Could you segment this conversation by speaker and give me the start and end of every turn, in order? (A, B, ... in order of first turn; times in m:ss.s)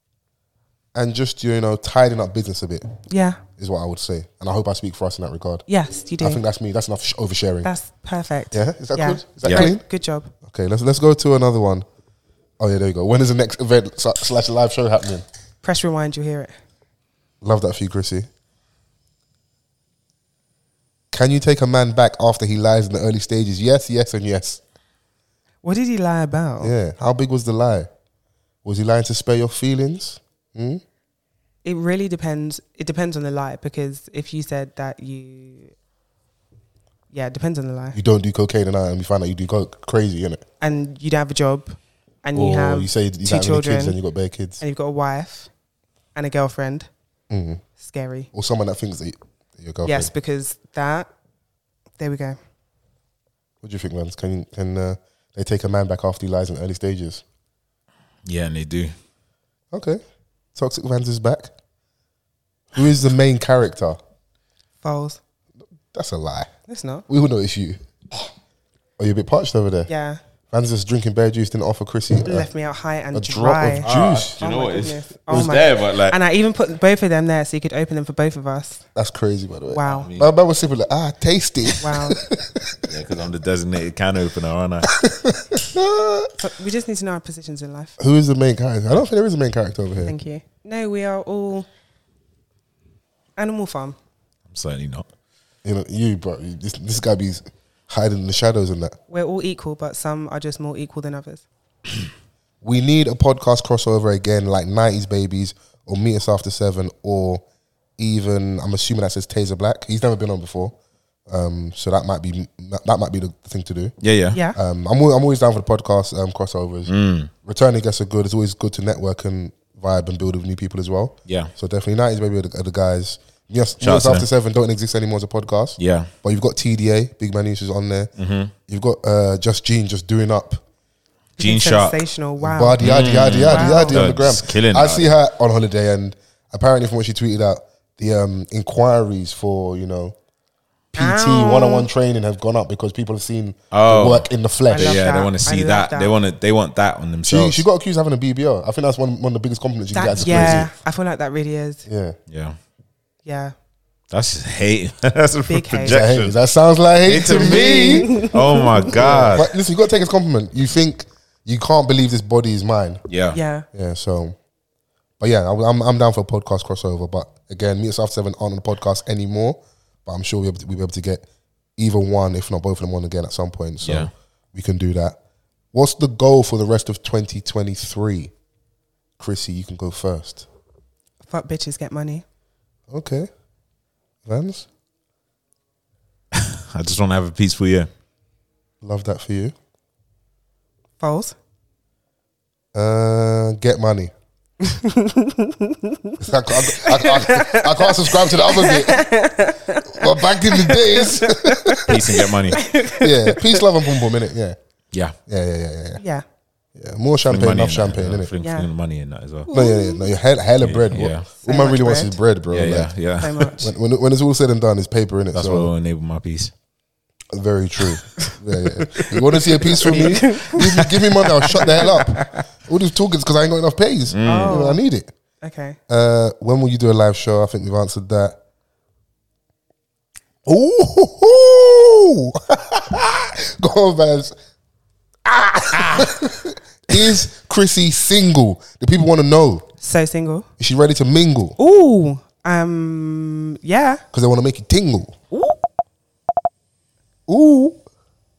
0:00.9-0:02.9 A
0:03.1-0:03.4 B
0:03.6-0:05.6 A
0:05.7-0:06.4 B
0:06.2-0:07.7 A
0:07.6-0:10.3 B
0:08.5-0:09.8 A
0:10.4-0:11.8 A
0:12.6-0:15.2 A
0:15.6-0:16.6 B
0:17.4-0:18.3 A
0:21.1-0:24.6 A
0:25.6-0:26.7 B
0:26.6-0:27.9 A
0:28.6-0:30.8 A
0:31.6-0:35.7 B
0:37.1-0:38.0 B
0:37.9-0:40.4 A
0:40.6-0:44.0 B
0:42.3-0:44.6 A
0:44.6-0:45.5 B
0:46.1-0:46.9 B
0:47.3-0:47.6 A
0:47.8-0:48.3 B
0:48.3-0:50.1 A
0:49.8-0:51.1 B
0:52.0-0:52.4 B
0:53.6-0:57.2 A
0:58.2-0:58.9 C
0:59.7-1:00.0 A
1:00.5-1:01.5 A
1:02.7-1:04.0 A
1:04.8-1:05.2 B
1:05.9-1:06.5 A
1:06.7-1:07.0 B
1:07.1-1:08.3 A
1:09.0-1:09.9 A
1:09.9-1:10.2 B
1:10.5-1:12.5 A
1:12.2-1:13.9 B
1:13.1-1:14.4 A
1:13.8-1:16.2 C
1:14.4-1:18.8 B
1:18.9-1:22.8 A
1:19.7-1:20.1 B
1:19.9-1:20.3 C
1:21.8-1:22.2 B
1:22.8-1:24.9 C
1:24.9-1:26.3 A
1:26.4-1:28.0 B
1:28.0-1:30.1 A
1:30.0-1:31.7 B
1:33.4-1:34.0 B
1:34.5-1:35.1 C
1:35.6-1:39.0 A
1:39.1-1:41.4 B
1:42.6-1:47.4 A
1:48.0-1:50.7 A
1:51.3-1:53.9 A
1:54.0-1:54.4 C
1:54.5-1:56.9 A
1:56.9-1:57.3 C
1:57.4-2:08.1 A
2:03.8-2:04.3 C
2:05.8-2:06.1 C
2:08.2-2:08.5 C
2:08.7-2:10.6 A
2:11.4-2:12.8 B
2:11.4-2:12.0 C
2:12.4-2:20.2 A
2:12.8-2:15.1 C
2:13.5-2:14.0 B
2:20.9-2:25.0 A
2:21.0-2:21.9 B
2:23.7-2:27.6 C
2:24.7-2:26.1 B
2:27.2-2:30.7 A
2:29.9-2:31.8 B
2:30.2-2:30.6 C
2:31.8-2:32.2 A
2:32.3-2:32.6 C
2:33.2-2:33.5 B
2:34.1-2:36.4 C
2:35.5-2:36.0 B
2:35.9-2:38.1 A
2:37.0-2:39.5 C
2:37.2-2:38.8 B
2:38.9-2:43.0 A
2:43.1-2:43.4 C
2:43.3-2:43.6 B
2:43.7-2:44.4 A
2:45.2-2:51.2 A
2:51.8-2:55.2 A
2:53.8-2:54.1 C
2:55.7-2:58.3 A
2:59.2-3:00.4 A
3:01.3-3:02.2 B
3:02.9-3:03.3 A
3:04.2-3:04.7 A
3:06.3-3:07.9 C
3:08.8-3:09.5 A
3:11.0-3:11.4 B
3:12.7-3:14.1 A
3:14.7-3:23.6 B
3:16.2-3:19.0 A
3:19.9-3:21.9 A
3:21.8-3:22.6 C
3:22.9-3:24.6 A
3:25.3-3:26.0 A
3:26.0-3:26.2 B
3:26.8-3:28.3 A
3:27.2-3:29.5 C
3:28.4-3:28.7 B
3:29.5-3:30.0 B
3:29.5-3:32.9 A
3:30.6-3:31.3 C
3:31.4-3:32.2 B
3:32.5-3:33.5 C
3:33.2-3:33.7 B
3:33.6-3:35.7 A
3:35.3-3:36.5 C
3:37.3-3:45.1 A
3:39.8-3:40.6 B
3:41.5-3:41.8 B
3:44.1-3:44.6 C
3:44.2-3:44.8 B
3:45.4-3:45.8 B
3:45.9-3:48.4 A
3:50.4-3:54.3 A
3:55.2-3:59.6 A
3:59.8-4:00.5 B
4:00.6-4:01.6 A
4:01.6-4:04.0 B
4:04.1-4:05.1 A
4:05.3-4:05.6 B
4:07.3-4:07.8 A